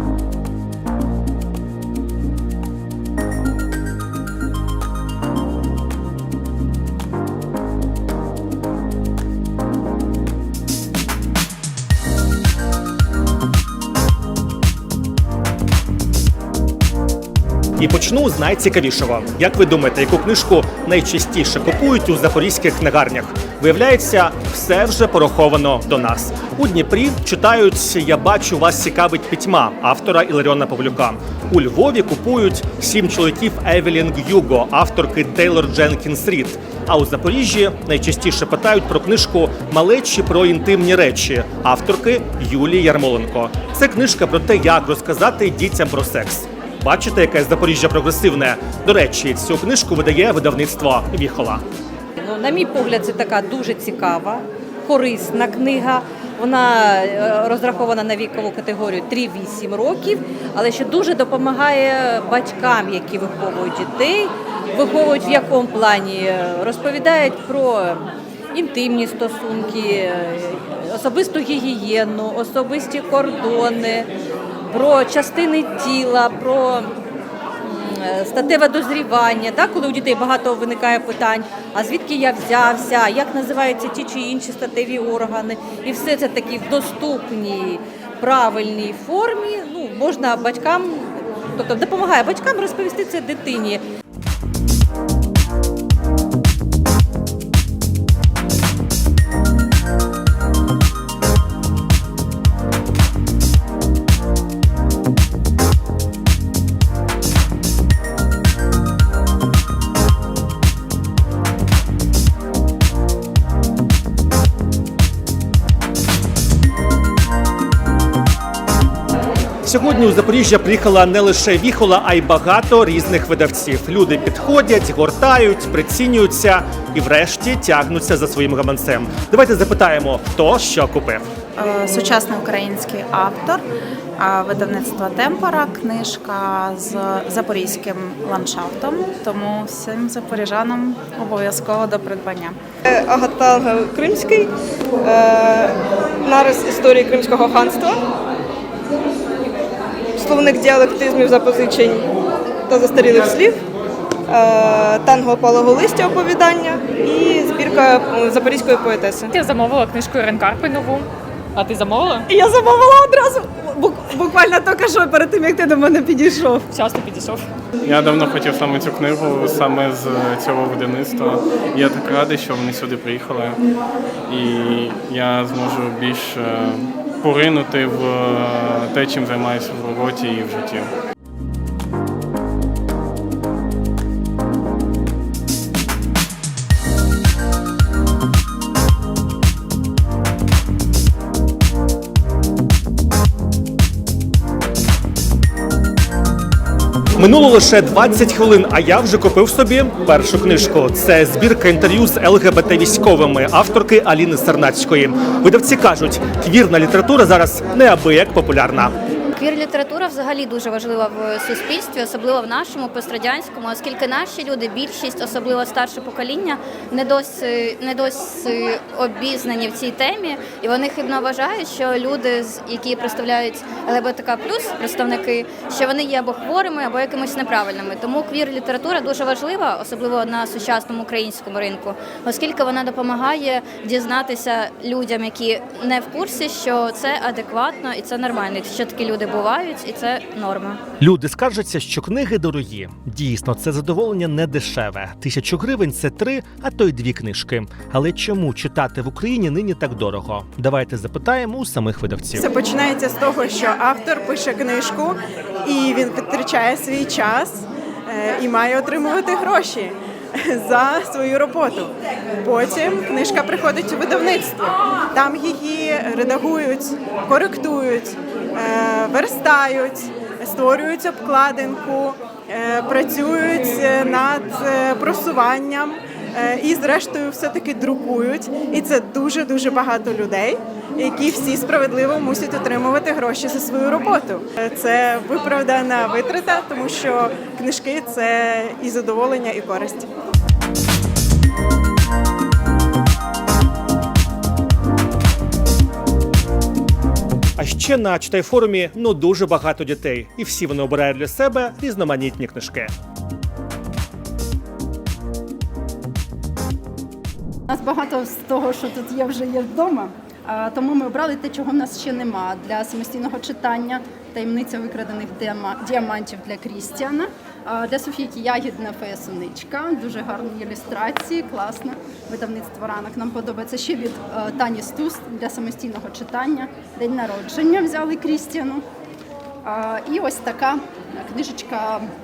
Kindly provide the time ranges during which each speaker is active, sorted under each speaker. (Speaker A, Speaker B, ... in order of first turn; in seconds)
Speaker A: 17.8-51.6, 119.6-131.3, 197.2-208.9, 241.0-252.4, 297.6-302.9
Speaker B: 52.2-74.1, 74.7-76.9, 77.6-93.8
Speaker C: 131.6-133.6, 134.2-142.6
Speaker D: 142.9-144.5, 145.1-145.7, 146.2-148.0, 150.2-152.0, 152.7-153.6, 154.3-159.2
Speaker E: 159.1-162.2, 166.7-167.4
Speaker F: 167.8-173.6, 174.3-180.9, 307.7-328.8, 329.6-332.1
Speaker G: 209.4-240.8
Speaker H: 252.3-259.9, 260.5-261.9, 262.4-290.1